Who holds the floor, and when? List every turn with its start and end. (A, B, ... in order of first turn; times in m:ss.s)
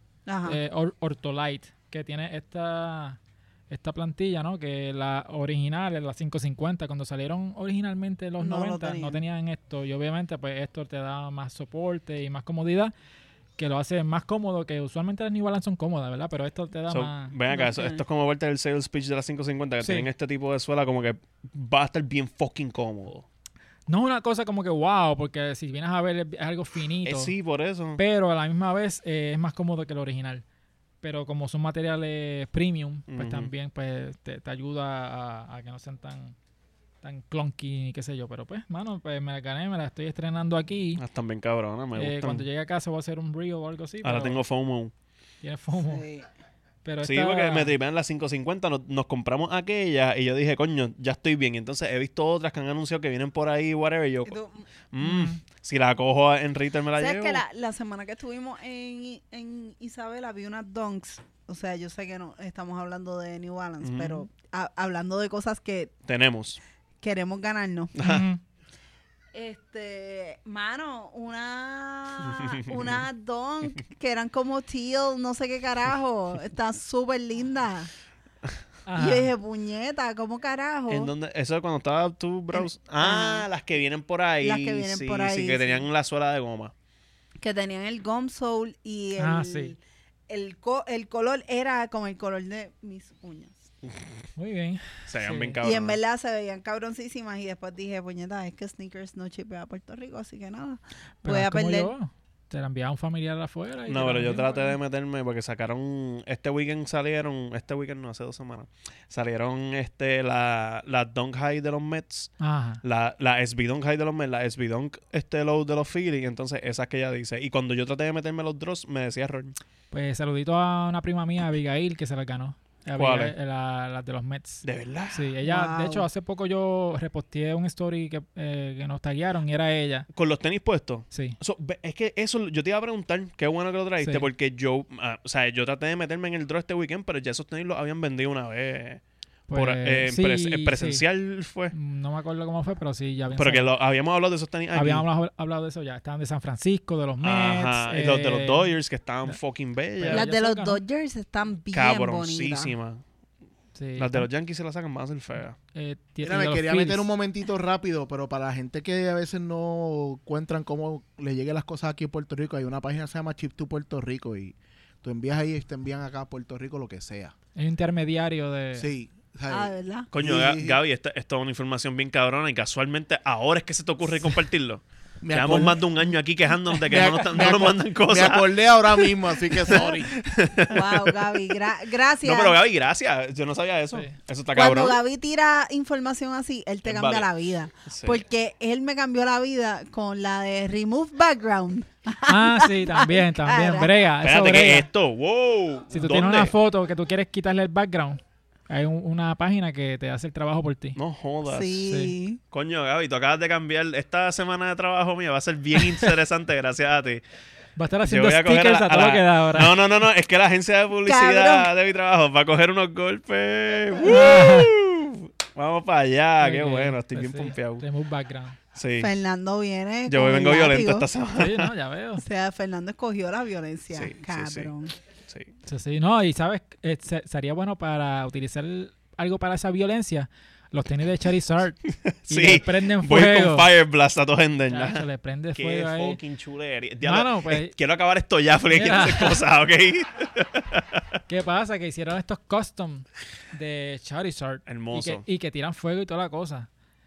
0:00.2-0:00.6 A
0:00.4-0:12.9 B
0:08.4-0:09.2 A
0:13.6-0:17.4 B
0:16.9-0:23.2 C
0:17.5-0:18.0 A
0:19.8-0:20.1 B
0:23.9-0:27.3 B
0:27.0-0:28.0 C
0:28.0-0:30.4 B
0:31.0-0:36.4 B
0:33.1-0:33.5 C
0:37.0-0:41.0 B
0:41.0-0:42.4 C
0:42.0-0:44.4 B
0:44.0-0:44.9 C
0:45.4-0:46.0 B
0:45.8-0:46.3 A
0:46.8-0:47.7 B
0:47.0-0:54.4 C
0:54.2-0:54.6 A
0:54.9-0:57.4 C
0:55.0-0:55.4 B
0:57.0-1:05.9 A
1:03.8-1:04.3 C
1:06.1-1:06.6 C
1:07.0-1:07.9 A
1:07.9-1:08.3 C
1:08.0-1:08.4 B
1:09.3-1:17.9 A
1:12.2-1:13.0 C
1:18.8-1:19.3 B
1:19.0-1:21.1 A
1:20.9-1:26.7 C
1:22.5-1:23.4 A
1:24.4-1:25.8 A
1:27.4-1:33.6 A
1:29.2-1:29.7 B
1:34.4-1:35.6 B
1:35.1-1:36.0 C
1:35.6-1:41.9 A
1:41.2-1:44.8 B
1:43.9-1:59.5 C
1:52.4-1:52.8 B
1:59.9-2:10.1 B
2:02.9-2:03.3 C
2:04.6-2:05.3 C
2:05.4-2:06.0 A
2:10.1-2:21.7 C
2:11.1-2:11.4 B
2:14.0-2:14.3 B
2:19.5-2:21.0 B
2:21.7-2:23.7 B
2:23.4-2:25.0 C
2:24.7-2:28.7 B
2:27.2-2:30.3 C
2:30.0-2:30.8 B
2:30.1-2:32.7 A
2:31.7-2:33.0 C
2:33.7-2:34.3 B
2:34.0-2:35.6 C
2:35.7-2:37.1 B
2:36.2-2:47.3 D
2:47.6-2:48.9 B
2:48.8-2:50.8 D
2:49.5-2:50.1 A
2:50.1-2:58.7 C
2:55.2-2:56.1 D
2:56.8-3:00.3 D
2:59.6-3:01.4 C
3:00.7-3:02.6 A
3:02.2-3:05.0 C
3:04.5-3:13.9 A
3:06.8-3:07.3 C
3:07.8-3:08.2 C
3:12.2-3:14.9 B
3:14.2-3:16.5 C
3:15.9-3:21.0 B
3:21.0-3:21.9 C
3:21.4-3:22.4 A
3:21.8-3:22.1 B
3:22.5-3:27.2 C
3:25.8-3:26.1 B
3:27.8-3:29.8 B
3:28.0-3:37.8 C
3:31.0-3:31.7 A
3:34.0-3:34.7 B
3:36.4-3:38.6 B
3:38.7-3:39.1 C
3:39.0-3:41.1 A
3:40.1-3:41.7 C
3:41.3-3:42.2 B
3:42.2-3:44.9 A
3:43.9-3:44.7 C
3:45.6-3:53.7 B
3:52.0-4:01.0 C
3:54.7-3:56.2 B
3:57.0-3:57.7 B
3:58.7-3:59.4 B
4:01.3-4:06.7 B
4:04.6-4:05.2 C